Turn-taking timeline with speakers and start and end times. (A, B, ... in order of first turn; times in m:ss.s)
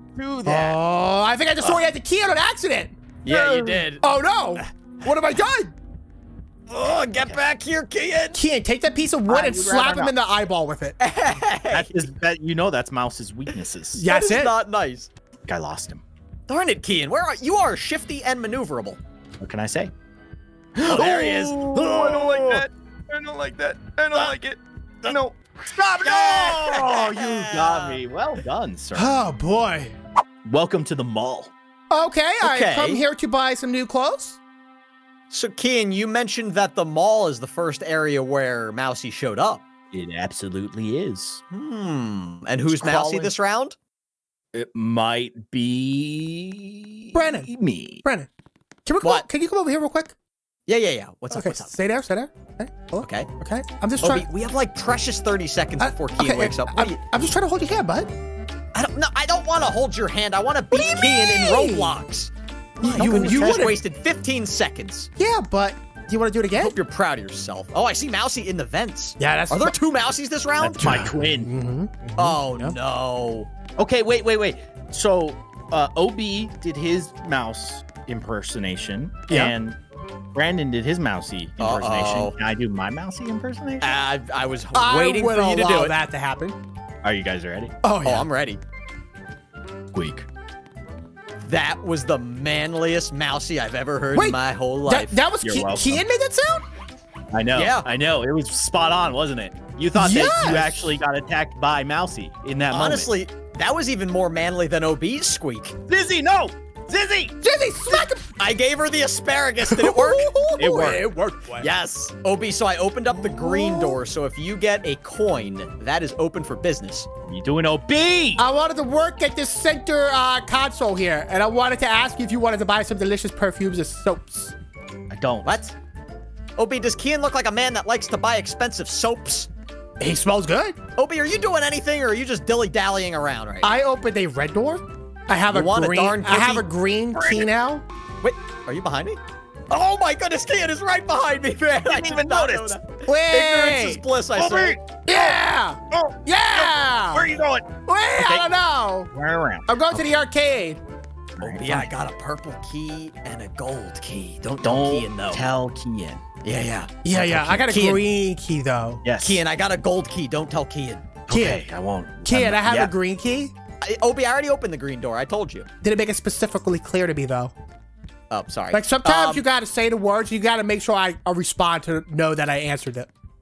0:00.2-0:00.7 A
0:00.4-0:03.0 B
0:03.2-0:04.0 C
0:03.2-0:03.8 A
0:04.0-0:05.7 B
0:06.7-0:08.4 C
0:06.9-0:07.4 A
0:08.3-0:11.0 B
0:09.3-0:10.1 A
0:11.0-0:12.0 C
0:11.7-0:14.0 A
0:13.9-0:14.5 B
0:14.1-0:15.1 C
0:15.5-0:16.0 A
0:16.5-0:19.0 C
0:19.4-0:19.9 A
0:20.8-0:29.2 A
0:20.8-0:22.6 C
0:26.0-0:28.0 C
0:28.9-0:29.9 B
0:30.4-0:31.5 A
0:31.9-0:34.4 B
0:32.4-0:33.0 C
0:35.3-0:39.6 C
0:39.9-0:41.4 A
0:41.5-0:43.8 C
0:42.7-0:43.3 A
0:44.5-0:48.0 A
0:47.1-0:47.5 B
0:48.0-0:48.3 B
0:48.8-0:50.1 B
0:49.0-0:49.3 C
0:50.7-0:51.7 C
0:51.3-0:54.2 B
0:53.0-0:53.3 C
0:54.0-0:57.0 C
0:55.8-0:58.1 B
0:58.7-1:05.1 C
1:00.7-1:02.0 B
1:02.8-1:03.8 B
1:02.9-1:03.7 A
1:05.2-1:06.8 B
1:06.5-1:11.0 C
1:09.2-1:09.8 B
1:10.6-1:11.5 A
1:10.8-1:12.7 B
1:12.2-1:13.5 C
1:13.8-1:19.8 A
1:20.3-1:23.9 A
1:21.6-1:22.3 C
1:23.8-1:25.9 C
1:24.7-1:26.6 B
1:27.0-1:27.7 A
1:27.8-1:28.3 B
1:28.0-1:28.6 C
1:29.9-1:30.2 A
1:31.4-1:35.2 C
1:34.1-1:36.6 B
1:35.4-1:36.0 A
1:37.3-1:43.1 A
1:37.5-1:37.9 C
1:39.9-1:40.9 B
1:42.7-1:45.8 C
1:45.9-1:47.4 A
1:47.4-1:48.3 B
1:47.9-1:50.3 C
1:49.6-1:51.7 B
1:50.6-1:51.1 A
1:51.5-1:57.1 C
1:53.2-1:54.0 B
1:57.3-1:58.4 A
1:58.4-2:04.5 B
2:05.1-2:05.7 A
2:05.4-2:05.7 C
2:06.6-2:09.5 C
2:10.0-2:10.8 B
2:11.0-2:13.7 C
2:13.6-2:17.8 B
2:15.5-2:16.6 C
2:17.1-2:17.5 A
2:18.2-2:19.2 C
2:19.7-2:24.8 C
2:21.8-2:22.8 A
2:23.0-2:24.0 B
2:24.4-2:25.4 A
2:25.0-2:27.3 B
2:25.9-2:28.5 A
2:27.8-2:29.1 B
2:29.1-2:30.0 A
2:29.6-2:30.8 B
2:31.4-2:31.9 A
2:31.4-2:35.4 C
2:34.6-2:36.2 A
2:36.4-2:38.0 C
2:37.0-2:39.0 B
2:37.1-2:37.6 A
2:39.0-2:39.4 A
2:39.2-2:41.2 C
2:41.3-2:42.9 A
2:41.3-2:41.7 B
2:42.2-2:43.5 B
2:43.8-2:45.6 C
2:45.8-2:47.5 B
2:48.3-2:49.4 C
2:48.7-2:53.1 B